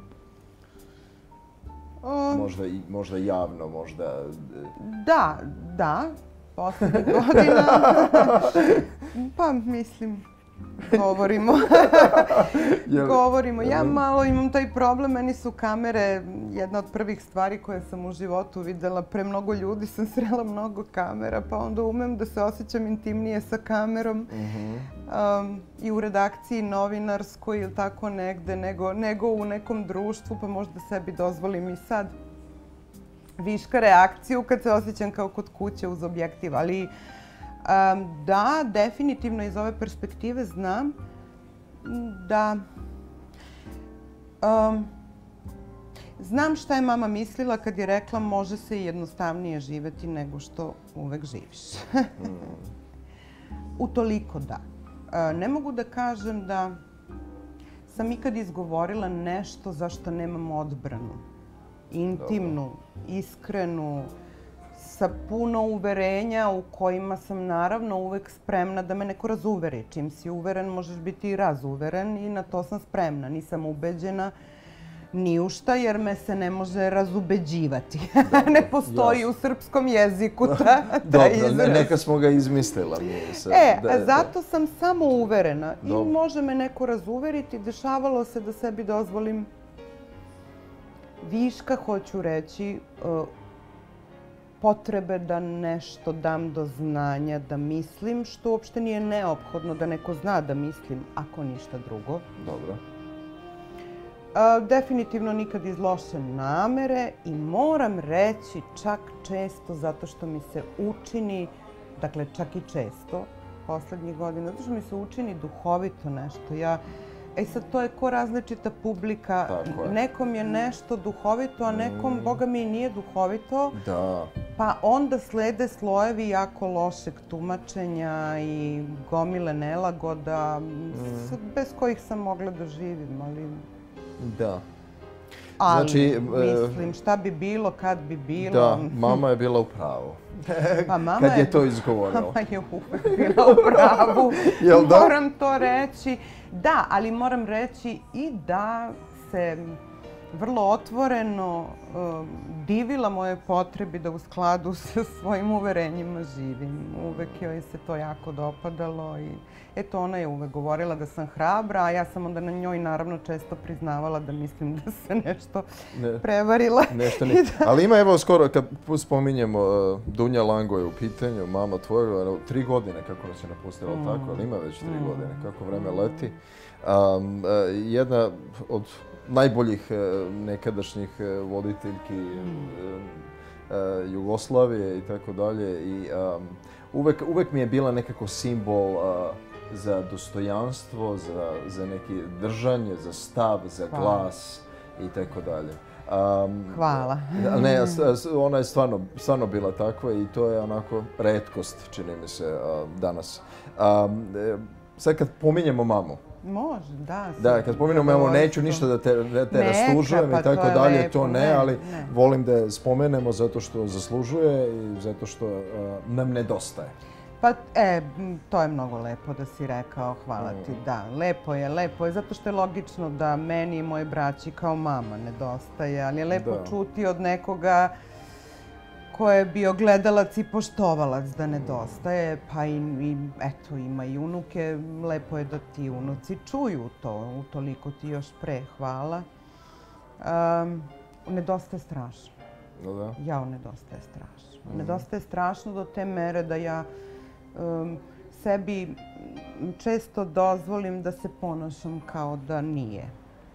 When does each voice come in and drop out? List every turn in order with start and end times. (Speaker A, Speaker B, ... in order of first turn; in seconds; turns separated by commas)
Speaker A: 2.0-2.5, Speaker B: 2.3-4.7, Speaker A: 4.8-10.2, Speaker B: 6.8-8.8, Speaker A: 10.8-24.3, Speaker B: 10.9-14.0, Speaker B: 24.3-24.9, Speaker A: 25.0-32.1, Speaker A: 33.4-36.9, Speaker A: 37.6-40.9, Speaker A: 41.8-42.6, Speaker A: 44.4-44.9, Speaker A: 46.2-52.5, Speaker B: 52.2-52.7, Speaker A: 53.8-56.8, Speaker A: 57.9-61.2, Speaker A: 61.9-64.1, Speaker B: 62.1-62.5, Speaker A: 64.7-74.3, Speaker A: 75.1-81.9, Speaker B: 78.3-79.3, Speaker B: 80.5-84.3, Speaker A: 83.5-89.5, Speaker B: 85.8-86.1, Speaker A: 91.2-93.3, Speaker A: 94.6-102.3, Speaker B: 102.4-102.8, Speaker A: 104.3-116.8, Speaker A: 117.3-123.8, Speaker B: 119.5-120.0, Speaker B: 121.7-122.4, Speaker B: 123.7-124.3, Speaker A: 124.5-133.6, Speaker B: 130.9-131.3, Speaker B: 134.2-134.6, Speaker A: 135.6-139.2, Speaker B: 135.6-136.9, Speaker B: 138.4-142.4, Speaker A: 140.9-149.8, Speaker B: 143.0-145.1, Speaker A: 150.3-165.6, Speaker B: 165.9-166.2, Speaker A: 166.2-167.7, Speaker B: 166.9-206.2, Speaker A: 173.9-176.2, Speaker A: 193.9-194.3, Speaker A: 196.7-198.1, Speaker A: 206.4-208.9, Speaker B: 207.4-216.9, Speaker A: 209.5-212.1, Speaker A: 217.4-227.9, Speaker B: 220.4-220.7, Speaker B: 226.3-226.7, Speaker A: 229.1-239.2, Speaker B: 231.6-231.9, Speaker A: 240.2-242.3, Speaker B: 242.8-243.2, Speaker A: 243.2-246.8, Speaker B: 244.7-245.0, Speaker A: 247.5-253.1